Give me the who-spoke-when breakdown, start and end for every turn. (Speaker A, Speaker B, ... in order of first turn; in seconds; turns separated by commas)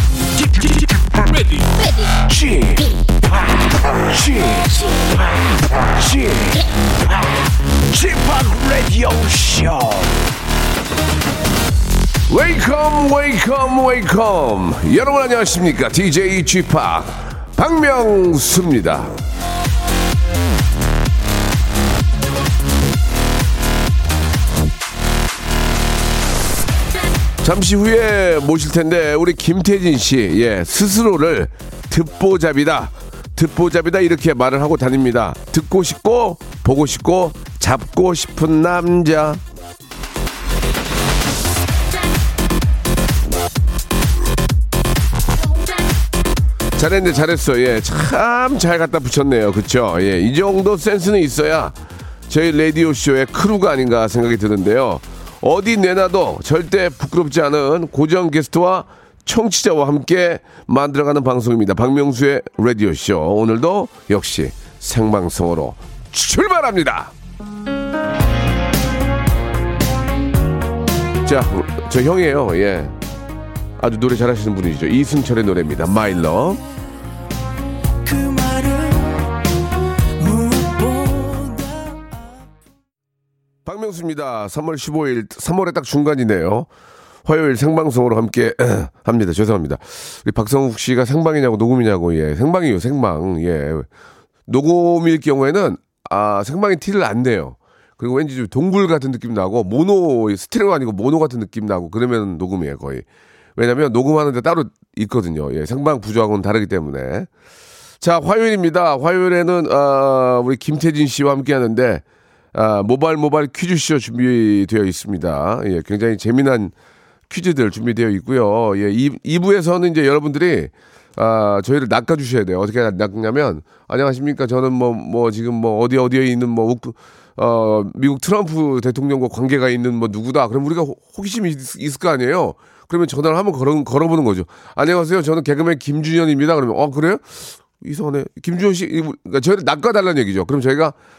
Speaker A: 0.4-1.4, Speaker A: 2.2-5.0, Speaker B: 4.2-4.7, Speaker A: 6.0-6.5, Speaker B: 6.0-6.5, Speaker A: 7.9-10.2, Speaker B: 12.3-19.1, Speaker B: 27.4-39.4, Speaker B: 46.8-51.8, Speaker B: 52.3-67.1, Speaker B: 71.2-72.9, Speaker B: 73.8-76.6, Speaker B: 83.6-86.7, Speaker B: 87.2-93.9, Speaker B: 94.5-103.0, Speaker B: 103.6-107.3, Speaker B: 108.0-112.0, Speaker B: 112.5-116.7, Speaker B: 117.3-140.9